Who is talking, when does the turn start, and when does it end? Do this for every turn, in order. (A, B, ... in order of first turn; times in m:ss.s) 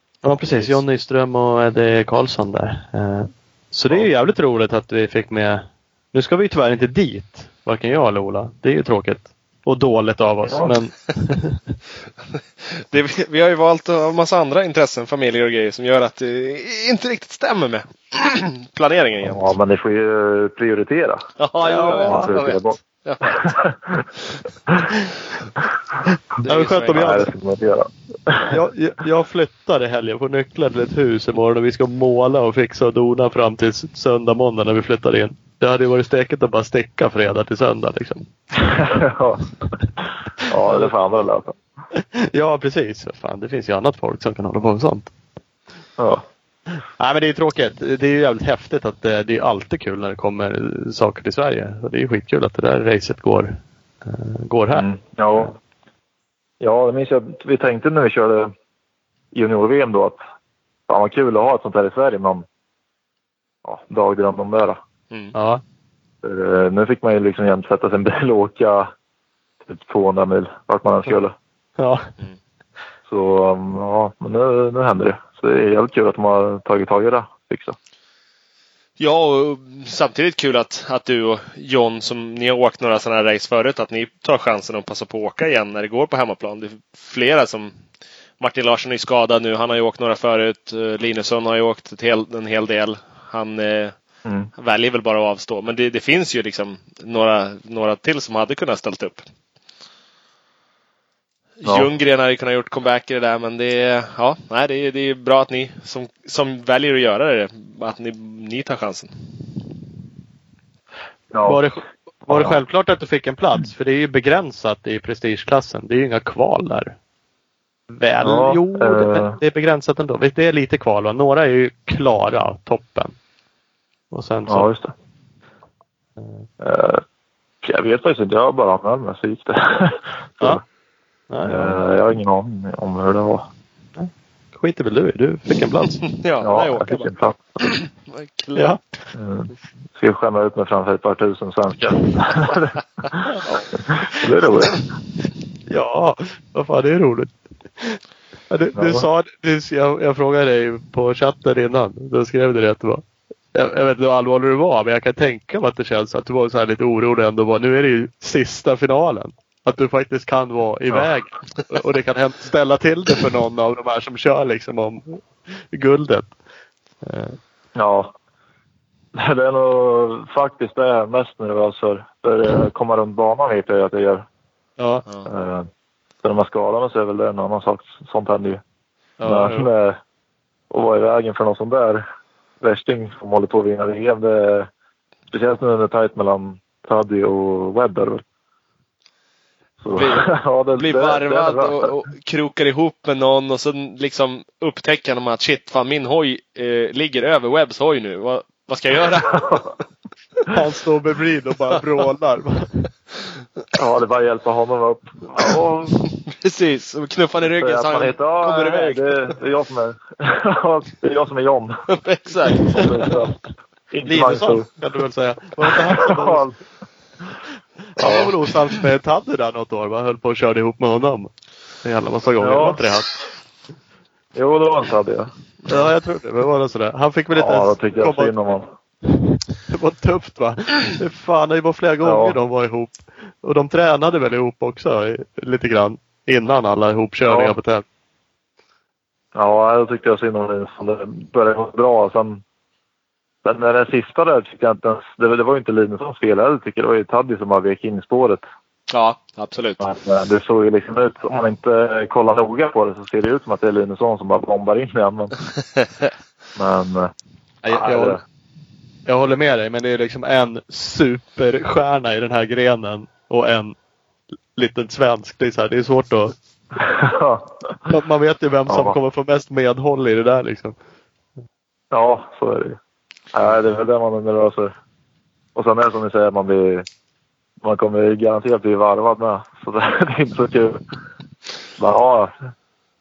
0:00.2-0:11.6 A
0:12.3-0:19.5 B
0:19.2-0:21.3 C
0:21.4-0:23.2 B
0:21.6-0:22.3 A
0:21.8-0:24.1 C
0:26.4-0:27.1 B
0:26.4-0:27.3 A
0:26.9-0:28.6 C
0:28.5-0:38.3 A
0:38.6-0:39.5 C
0:40.4-0:41.5 C
0:41.9-0:45.1 A
0:46.0-0:46.2 C
0:47.0-0:54.8 A
0:54.7-0:55.5 C
0:56.6-0:58.5 C
0:59.3-1:00.2 C
1:00.9-1:02.4 C
1:03.6-1:04.8 C
1:05.3-1:05.6 A
1:06.2-1:08.9 C
1:09.7-1:11.3 C
1:11.8-1:12.1 A
1:13.1-1:17.8 C
1:19.0-1:27.7 B
1:28.4-1:34.0 B
1:34.2-1:34.5 C
1:34.6-1:39.2 B
1:41.6-1:49.1 B
1:51.3-1:51.6 C
1:51.4-1:57.0 A
1:52.3-1:52.6 C
1:57.9-2:03.2 A
1:58.2-1:59.4 C
2:04.1-2:04.7 A
2:04.5-2:04.9 C
2:06.6-2:07.0 C
2:07.6-2:10.6 C
2:11.3-2:11.8 A
2:11.4-2:13.4 C
2:14.0-2:16.0 A
2:16.0-2:17.1 B
2:16.4-2:17.6 C
2:17.9-2:18.7 B
2:19.1-2:24.8 C
2:25.7-2:28.0 A
2:28.5-2:33.0 A
2:28.7-2:29.0 C
2:33.5-2:46.3 A
2:47.0-2:47.4 A
2:47.7-2:48.1 C
2:49.1-2:54.2 C
2:54.8-2:55.0 A
2:55.2-2:55.7 C
2:56.2-2:58.6 C
2:59.2-2:59.6 A
2:59.2-3:00.0 C
3:00.7-3:02.0 C
3:02.6-3:04.7 C
3:05.3-3:08.2 C
3:09.8-3:11.9 C
3:09.9-3:19.6 B
3:19.4-3:19.6 C
3:20.5-3:22.9 A
3:23.7-3:26.1 C
3:26.2-3:29.3 B
3:27.4-3:31.8 C
3:31.9-3:33.2 B
3:32.7-3:33.1 A
3:32.7-3:33.4 C
3:33.9-3:34.7 C
3:34.0-3:36.4 A
3:36.0-3:36.5 C
3:38.0-3:41.3 A
3:38.0-3:38.3 C
3:41.8-3:43.1 A
3:42.4-3:42.8 C
3:44.3-3:45.9 C
3:45.7-3:48.3 A
3:47.3-3:48.7 C
3:49.1-3:57.8 A
3:52.0-3:52.4 C
3:57.3-3:57.6 C
3:59.3-4:02.4 C
4:03.4-4:08.4 C
4:08.9-4:09.8 B
4:09.8-4:15.4 C
4:16.6-4:17.1 C
4:17.6-4:18.2 A
4:17.7-4:18.2 C
4:19.0-4:23.8 A
4:24.5-4:26.3 A
4:26.8-4:27.9 C
4:27.9-4:30.8 A
4:28.7-4:29.0 C
4:31.9-4:32.8 C
4:33.3-4:34.7 C
4:35.5-4:36.8 C
4:37.6-4:40.8 C
4:41.8-4:42.3 C